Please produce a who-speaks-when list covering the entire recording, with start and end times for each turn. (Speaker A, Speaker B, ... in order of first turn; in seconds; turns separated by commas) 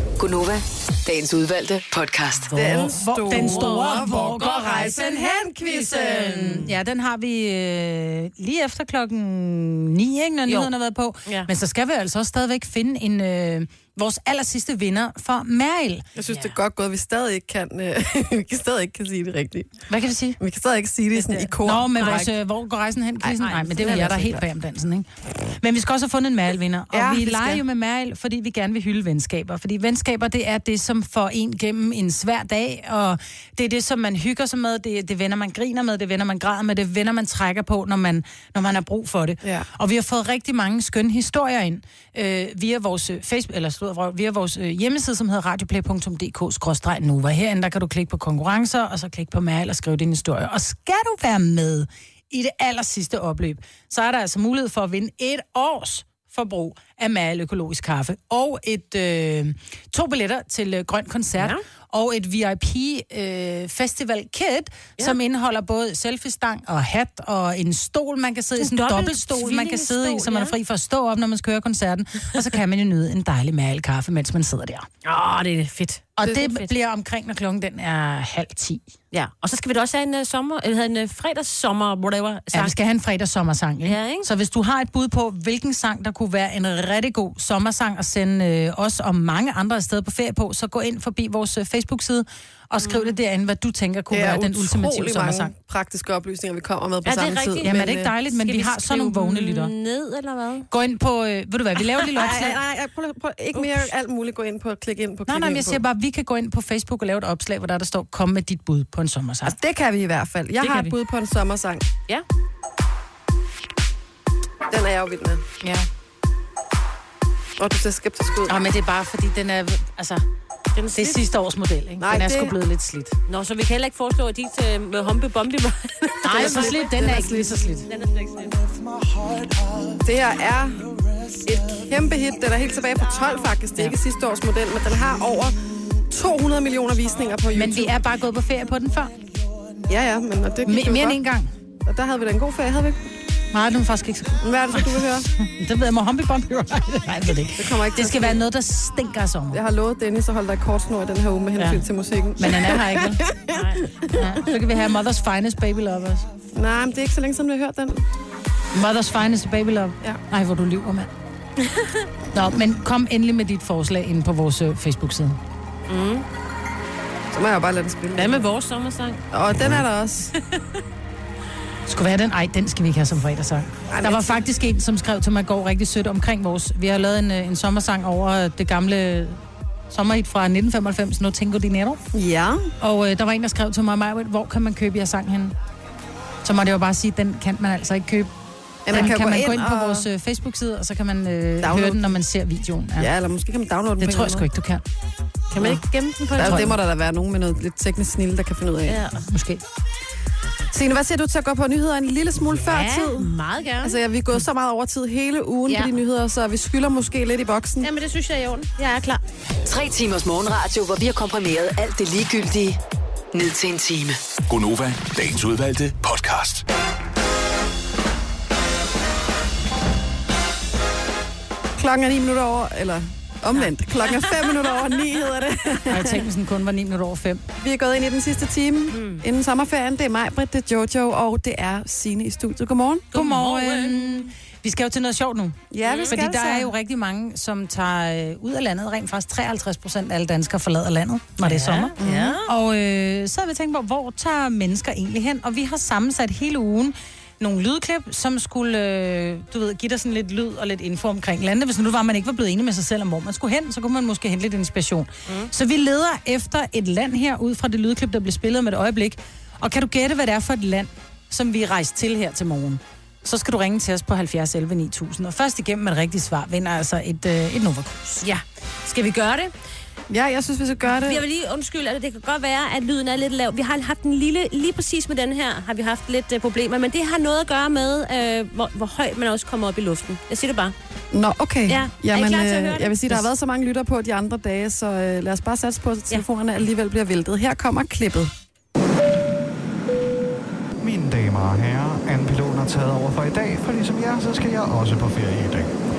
Speaker A: 0.2-2.5, Speaker B: 2.5-16.2, Speaker C: 2.5-6.7, Speaker D: 3.3-4.4, Speaker D: 10.5-10.7, Speaker C: 16.1-19.9, Speaker B: 19.9-20.4, Speaker C: 20.4-22.3, Speaker D: 21.1-22.2, Speaker B: 21.6-74.9, Speaker D: 23.4-24.4, Speaker C: 23.9-24.3, Speaker C: 26.9-27.6, Speaker D: 68.6-70.5, Speaker D: 75.0-76.7, Speaker B: 76.2-78.8, Speaker D: 79.1-82.7, Speaker B: 82.5-95.5, Speaker D: 83.8-84.3, Speaker D: 92.8-93.1, Speaker C: 94.1-98.1, Speaker D: 97.0-100.7, Speaker B: 97.6-99.7, Speaker B: 100.7-102.6, Speaker D: 102.1-102.5, Speaker C: 102.2-105.8, Speaker B: 105.3-109.5, Speaker C: 109.4-111.8, Speaker B: 110.6-110.9, Speaker C: 114.7-115.4, Speaker B: 115.6-115.9, Speaker C: 117.6-118.6, Speaker B: 118.5-120.2, Speaker D: 120.7-121.2, Speaker B: 120.9-123.1, Speaker C: 122.0-122.5, Speaker D: 123.3-126.9, Speaker B: 126.2-127.9, Speaker C: 126.3-127.6, Speaker D: 127.9-128.6, Speaker C: 130.0-130.8, Speaker C: 131.4-138.0, Speaker B: 137.5-139.1, Speaker C: 139.9-141.2, Speaker B: 140.6-141.5, Speaker C: 141.8-143.0, Speaker B: 143.5-149.6, Speaker C: 144.4-145.3, Speaker C: 147.6-148.4, Speaker C: 149.5-154.2, Speaker B: 151.6-151.8, Speaker B: 152.4-153.2, Speaker D: 153.5-153.9, Speaker B: 154.1-156.2, Speaker C: 156.6-158.0, Speaker B: 158.7-161.1, Speaker D: 161.6-162.1, Speaker B: 162.3-165.4, Speaker D: 165.9-166.2, Speaker C: 167.3-168.4, Speaker D: 168.2-169.2, Speaker C: 169.3-170.3, Speaker B: 171.9-182.0, Speaker C: 173.9-174.4, Speaker C: 182.1-182.7, Speaker B: 182.8-185.5, Speaker B: 186.4-188.3, Speaker C: 188.8-190.1, Speaker B: 188.9-193.1, Speaker C: 191.6-192.1, Speaker C: 193.0-194.4, Speaker B: 194.0-194.8, Speaker D: 195.5-196.7, Speaker C: 196.3-199.0, Speaker B: 196.4-196.8, Speaker D: 198.9-199.2, Speaker B: 199.2-199.6, Speaker C: 200.7-203.3, Speaker D: 202.7-204.0, Speaker C: 203.8-207.9, Speaker D: 207.8-209.2, Speaker A: 209.7-212.8, Speaker A: 213.3-214.2, Speaker E: 214.5-216.6, Speaker C: 221.8-226.2, Speaker D: 223.5-224.2, Speaker B: 225.9-227.4, Speaker C: 227.6-233.1, Speaker D: 228.9-229.2, Speaker D: 233.1-234.2, Speaker B: 233.1-241.9, Speaker C: 235.7-236.7, Speaker D: 235.8-236.2, Speaker D: 241.4-242.5, Speaker C: 242.0-242.3, Speaker B: 242.4-268.2, Speaker D: 268.2-269.5, Speaker C: 270.1-271.2, Speaker D: 270.9-280.7, Speaker C: 281.1-288.3, Speaker D: 281.7-283.2, Speaker F: 290.8-295.7